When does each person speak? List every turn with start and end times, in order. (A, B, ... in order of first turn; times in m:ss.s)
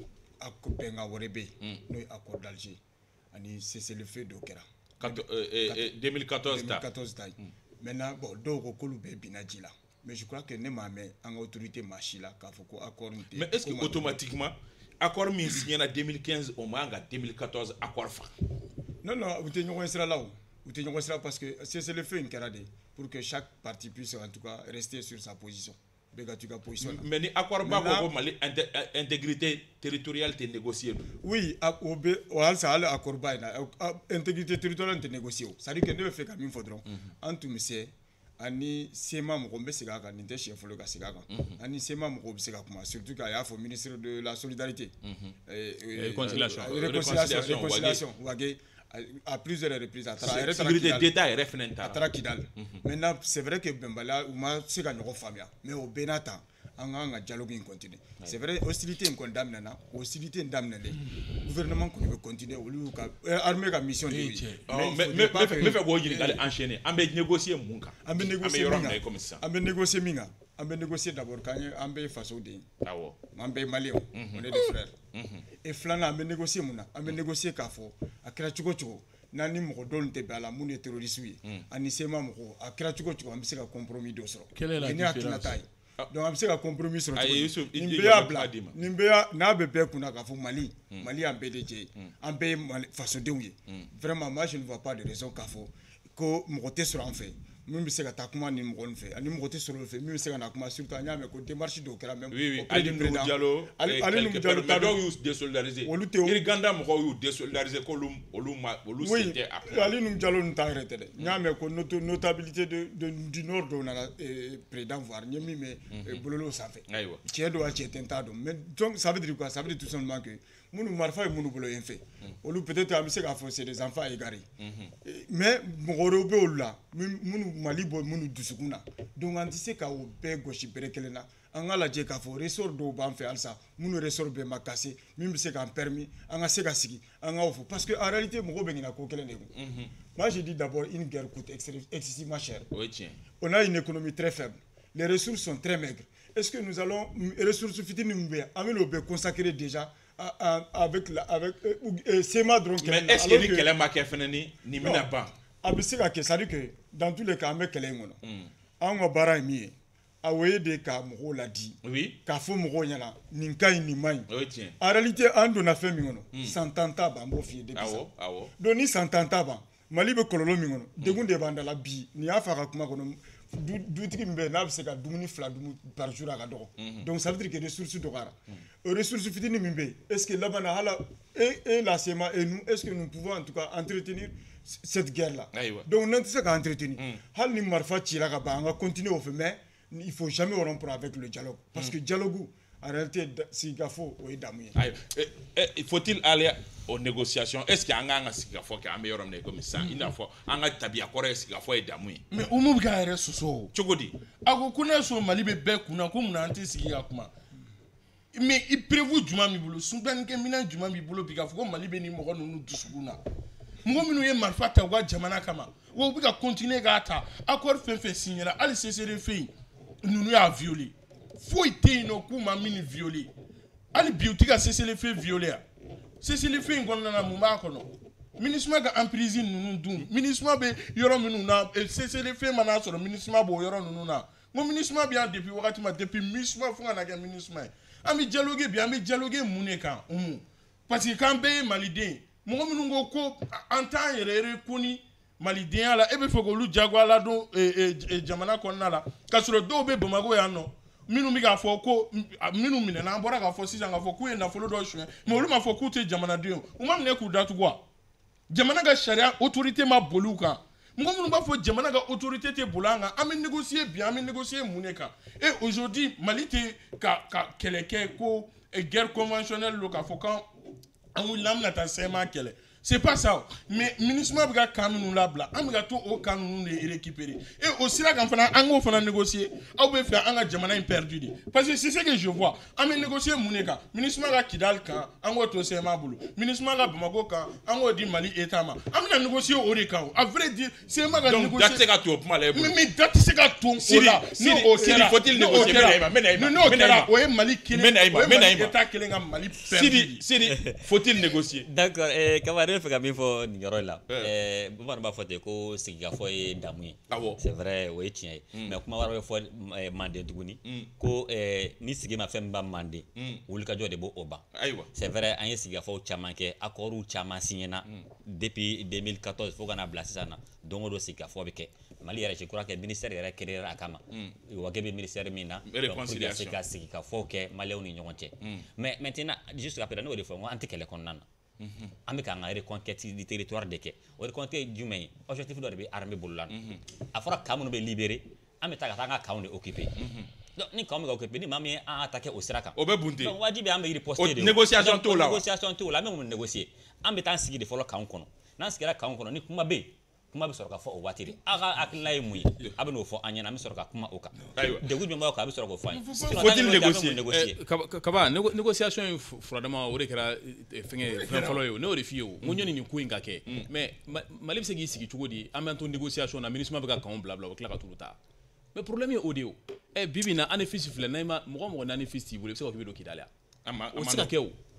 0:00.4-0:02.8 A
0:03.3-0:05.9 A
0:05.0-0:06.8 B
0:06.4-0:14.2 A
0:13.3-0:18.3 B
0:19.0-0:27.1 A
0:26.8-0:31.1 B
0:27.6-0:28.1 A
0:31.2-0:44.9 A
0:45.0-0:45.3 B
0:45.5-0:51.1 A
0:45.9-0:46.8 C
0:46.2-0:48.0 B
0:50.2-0:52.0 B
0:51.8-1:06.4 A
1:04.1-1:04.7 D
1:04.7-1:09.4 B
1:08.0-1:12.6 A
1:12.8-1:13.2 B
1:13.3-1:14.9 A
1:14.1-1:14.5 B
1:15.1-1:15.4 B
1:15.6-1:45.0 A
1:24.5-1:25.6 D
1:27.2-1:28.7 B
1:42.3-1:49.9 B
1:45.8-1:46.4 A
1:49.0-2:04.4 A
1:55.9-1:56.2 B
1:56.9-1:57.2 B
2:04.6-2:04.9 B
2:05.0-2:19.5 A
2:19.5-2:19.9 B
2:20.1-2:22.7 A
2:22.7-2:23.2 B
2:23.4-2:33.7 A
2:32.8-2:35.3 B
2:34.8-2:35.1 A
2:35.6-2:38.2 A
2:38.2-2:38.5 B
2:38.8-2:44.3 A
2:41.8-2:42.2 B
2:44.3-2:44.7 B
2:44.8-3:14.8 A
2:47.7-2:48.5 B
2:56.8-2:57.1 B
3:05.5-3:05.9 B
3:14.8-3:22.2 B
3:22.3-3:23.7 D
3:23.7-3:24.1 B
3:24.4-3:27.3 D
3:28.3-3:33.2 D
3:33.8-3:39.5 D
3:40.0-3:43.3 D
3:43.9-3:45.6 D
3:46.2-4:17.8 D
4:18.5-4:30.5 D
4:31.2-4:51.8 D
4:51.2-4:52.8 B
4:52.5-5:00.2 D
4:53.8-4:57.1 B
4:57.7-4:58.7 B
4:59.6-5:01.7 B
5:00.5-5:00.8 E
5:01.6-5:31.2 E
5:07.1-5:07.4 B
5:10.6-5:10.9 B
5:13.2-5:13.4 B
5:14.5-5:14.9 B
5:25.7-5:26.6 B
5:31.6-5:31.9 B
5:32.0-5:36.5 E
5:36.5-5:36.8 B
5:37.1-5:39.9 E
5:40.0-5:40.3 B
5:40.5-5:57.6 E
5:42.8-5:43.4 B
5:44.2-5:45.4 B
5:54.6-5:54.9 B
5:56.1-5:57.5 B
5:57.5-6:08.2 C
6:01.2-6:01.6 B
6:08.7-6:13.3 C
6:13.6-6:14.3 B
6:13.9-6:14.6 C